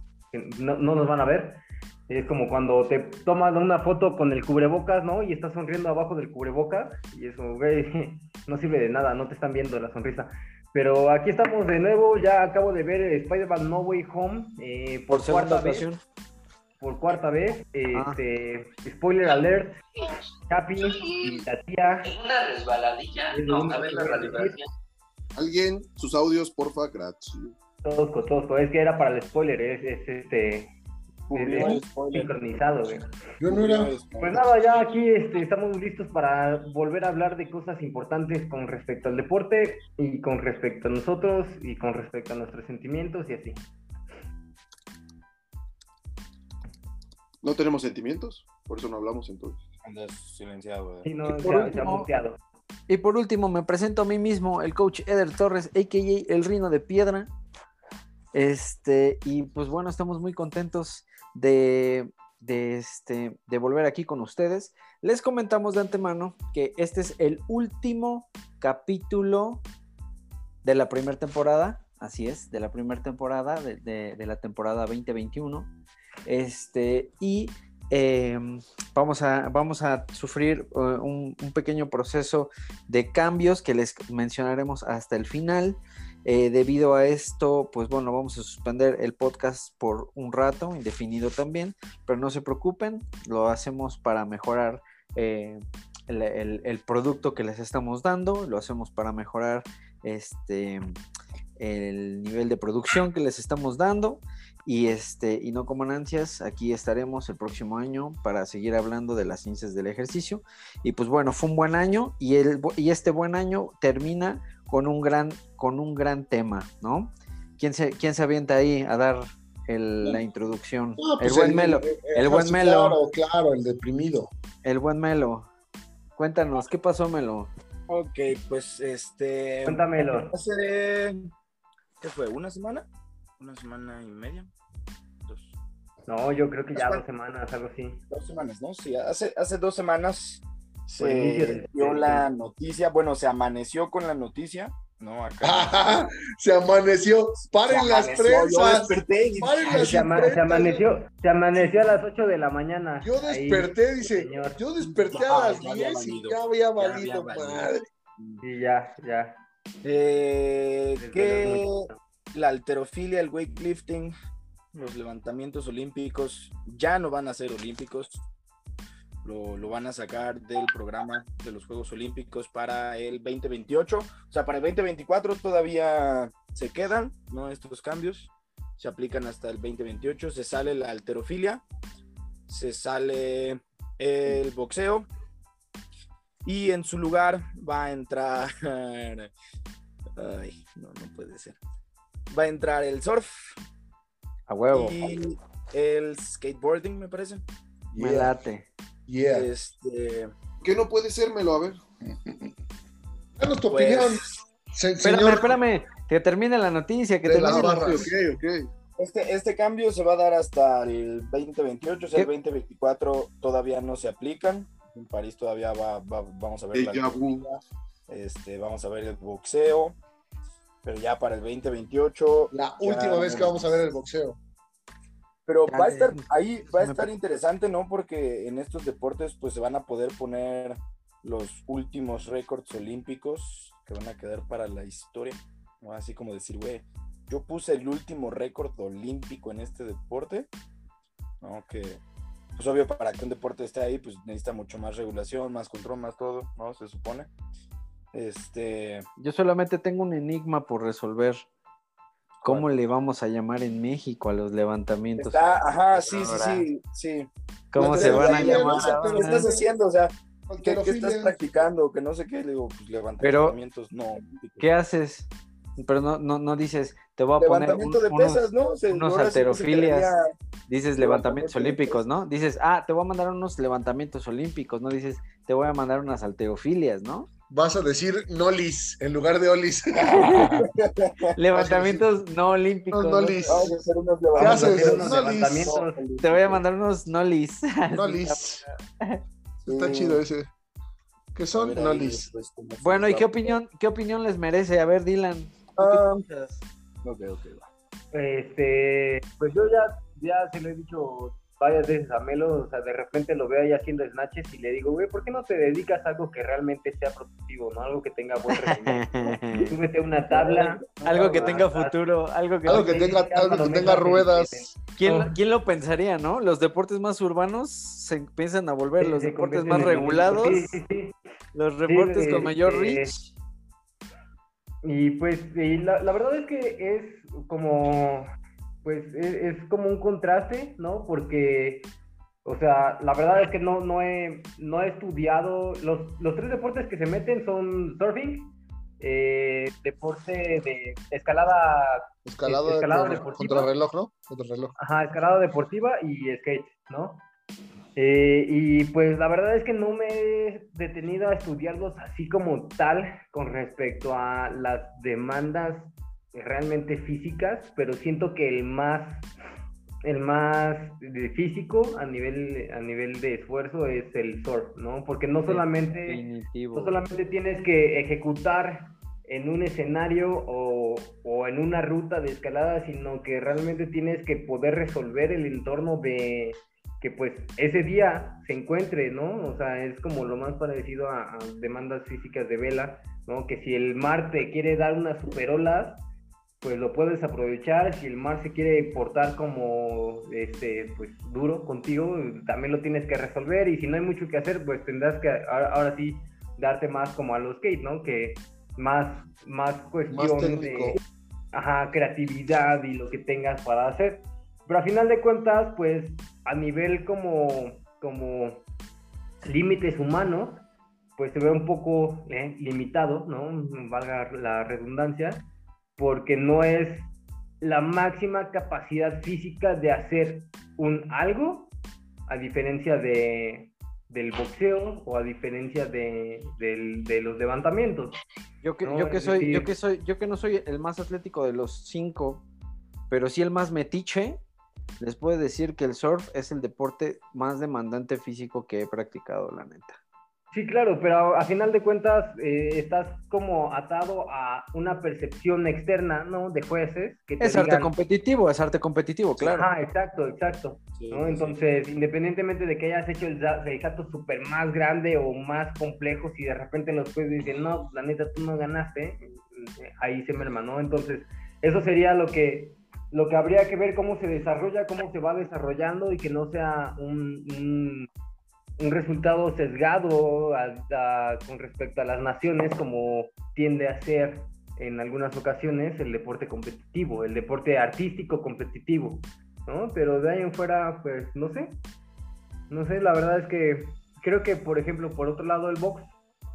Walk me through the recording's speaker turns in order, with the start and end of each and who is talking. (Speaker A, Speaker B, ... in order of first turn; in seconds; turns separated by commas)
Speaker A: 0.3-15.9, Speaker B: 15.1-16.0, Speaker A: 16.8-19.8, Speaker B: 17.9-18.2, Speaker A: 20.5-22.1, Speaker C: 22.1-24.5, Speaker A: 23.3-24.6, Speaker D: 25.4-27.5, Speaker A: 27.8-30.7, Speaker E: 31.3-32.3, Speaker A: 31.3-33.1, Speaker F: 33.4-33.9, Speaker E: 33.5-34.5, Speaker A: 34.2-43.6, Speaker D: 47.4-49.6, Speaker E: 49.8-51.1, Speaker A: 51.0-52.4, Speaker B: 51.3-52.1, Speaker B: 52.9-57.3, Speaker B: 58.3-69.6, Speaker B: 70.6-75.7, Speaker B: 76.3-100.9, Speaker B: 101.6-123.0, Speaker F: 121.0-124.3, Speaker B: 124.6-125.5, Speaker B: 126.2-127.5, Speaker E: 127.9-131.3, Speaker A: 129.7-130.3, Speaker E: 132.0-132.9, Speaker E: 133.4-134.5, Speaker E: 135.2-135.5, Speaker A: 136.1-138.0, Speaker E: 138.1-146.0, Speaker A: 141.0-142.2, Speaker F: 145.4-150.8, Speaker E: 147.7-150.4, Speaker A: 149.7-154.7, Speaker F: 153.0-157.9, Speaker E: 154.8-158.4, Speaker A: 158.4-159.4, Speaker E: 159.8-164.1, Speaker A: 161.0-162.0, Speaker E: 164.7-168.2, Speaker E: 169.2-181.6, Speaker E: 182.5-185.1, Speaker E: 186.4-189.3, Speaker E: 190.2-191.6, Speaker E: 192.3-193.6, Speaker B: 194.5-195.0, Speaker E: 194.7-197.4, Speaker F: 197.9-198.3, Speaker B: 198.0-198.7, Speaker F: 199.1-199.5, Speaker E: 199.3-200.3, Speaker D: 200.6-201.8, Speaker F: 202.2-202.5, Speaker F: 203.4-205.6, Speaker E: 203.7-204.3, Speaker B: 205.0-208.1, Speaker F: 207.2-208.1, Speaker D: 207.4-208.7, Speaker E: 209.0-217.4, Speaker D: 216.7-217.6, Speaker E: 218.1-220.0, Speaker E: 220.8-223.8, Speaker F: 222.5-224.4, Speaker E: 225.5-240.5, Speaker B: 225.7-227.1, Speaker E: 241.4-242.0, Speaker E: 242.6-247.3, Speaker E: 248.1-249.1, Speaker B: 249.2-251.5, Speaker E: 252.4-252.7, Speaker B: 252.4-256.7, Speaker E: 255.2-264.7, Speaker B: 257.7-259.5, Speaker F: 257.8-259.7, Speaker F: 260.5-261.4, Speaker B: 263.2-263.6, Speaker B: 264.6-270.1, Speaker E: 267.4-270.3, Speaker B: 270.7-277.3, Speaker E: 271.0-272.0, Speaker F: 277.5-280.7, Speaker B: 280.0-280.6, Speaker E: 280.4-282.0, Speaker B: 281.4-283.7, Speaker F: 281.6-281.9, Speaker F: 282.9-283.8, Speaker E: 283.5-285.9, Speaker F: 284.4-285.8, Speaker A: 284.4-286.5, Speaker B: 286.2-289.2, Speaker F: 287.9-288.6, Speaker E: 289.6-290.2, Speaker F: 289.7-290.5, Speaker F: 291.4-292.3, Speaker E: 291.5-293.5, Speaker B: 292.8-296.6, Speaker E: 295.8-296.1, Speaker F: 295.8-296.2, Speaker E: 297.0-297.7, Speaker A: 298.1-312.0, Speaker B: 308.6-309.8, Speaker B: 311.0-312.9, Speaker A: 312.7-315.4, Speaker F: 312.7-314.7, Speaker B: 315.0-320.7, Speaker A: 319.0-321.1, Speaker B: 321.6-323.2, Speaker A: 321.9-323.2, Speaker A: 324.8-328.3, Speaker A: 328.8-331.9, Speaker A: 332.4-343.7, Speaker F: 342.3-344.8, Speaker A: 344.8-347.2, Speaker A: 348.0-359.3, Speaker A: 360.0-366.2, Speaker B: 365.5-367.0, Speaker A: 366.7-386.0, Speaker A: 386.6-401.0, Speaker F: 400.1-401.0, Speaker A: 401.5-408.6, Speaker A: 409.4-410.6, Speaker A: 411.2-421.7, Speaker A: 422.3-428.2, Speaker B: 428.6-432.4, Speaker A: 428.8-429.7, Speaker B: 433.1-434.4, Speaker B: 435.0-440.0, Speaker A: 440.5-447.9, Speaker B: 447.4-449.7, Speaker A: 449.4-468.1, Speaker E: 450.9-451.6, Speaker A: 468.8-481.8, Speaker A: 482.7-486.1